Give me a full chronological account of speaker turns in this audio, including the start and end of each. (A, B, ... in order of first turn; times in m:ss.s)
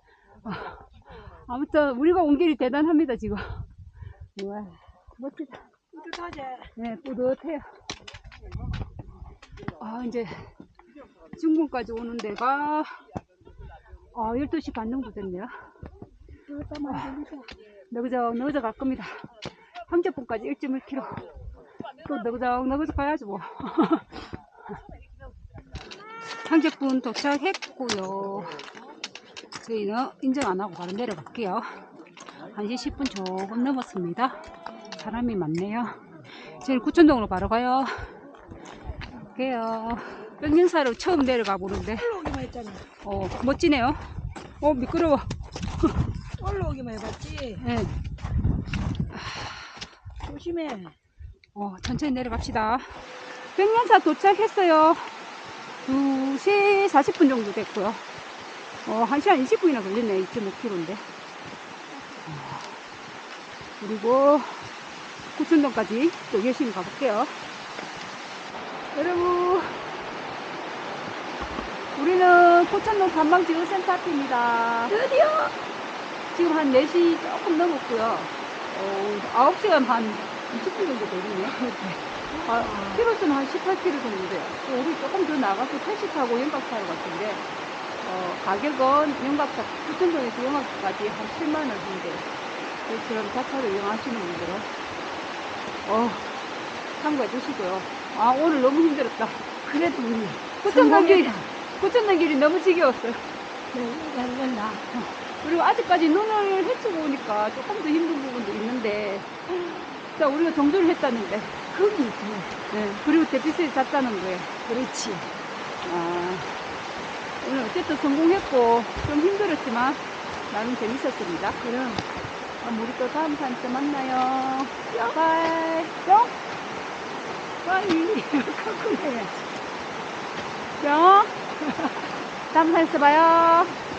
0:00.4-0:03.7 A
0:04.4-0:05.6 A
0:05.9-0:06.7 B
0:06.8-0:07.6 A
0:09.8-0:10.5 A
0:11.3-0:13.0 A
0:14.1-0:15.5 A
0:16.5-0:17.5 B
0:17.9-0:19.2 A
0:19.9-0:21.2 A
0:22.0-0:24.3 A
0:26.4-0:28.6 A
0:29.6-0:31.7 A
0:32.5-0:34.4 A
0:35.0-0:36.0 A
0:36.5-0:38.1 A
0:39.3-0:42.1 A
0:42.0-0:42.8 B
0:43.0-0:44.0 A
0:44.6-0:45.9 A
0:46.4-0:47.6 B
0:47.6-0:47.9 A
0:49.1-0:49.6 A
0:50.2-0:51.0 B
0:51.5-0:52.9 A
0:53.6-0:55.1 A
0:55.8-0:58.0 A
0:58.8-1:01.0 A
1:02.2-1:02.6 A
1:03.8-1:04.6 A
1:05.4-1:07.3 A
1:08.9-1:09.8 A
1:12.0-1:15.0 A
1:14.9-1:15.5 B
1:16.3-1:21.6 A
1:21.6-1:23.0 B
1:22.4-1:27.4 A
1:28.0-1:32.2 A
1:32.8-1:34.7 A
1:35.8-1:36.3 A
1:37.0-1:39.4 A
1:39.6-1:41.5 B
1:40.6-1:43.2 A
1:43.7-1:44.8 B
1:44.9-1:51.6 A
1:51.7-1:52.5 B
1:52.7-1:54.5 A
1:54.6-1:55.3 B
1:55.8-1:56.6 A
1:57.4-2:01.6 A
2:01.6-2:02.0 B
2:02.6-2:06.3 A
2:04.9-2:05.2 B
2:07.6-2:09.3 B
2:09.0-2:09.3 A
2:10.8-2:11.3 A
2:11.6-2:12.1 B
2:12.5-2:13.8 A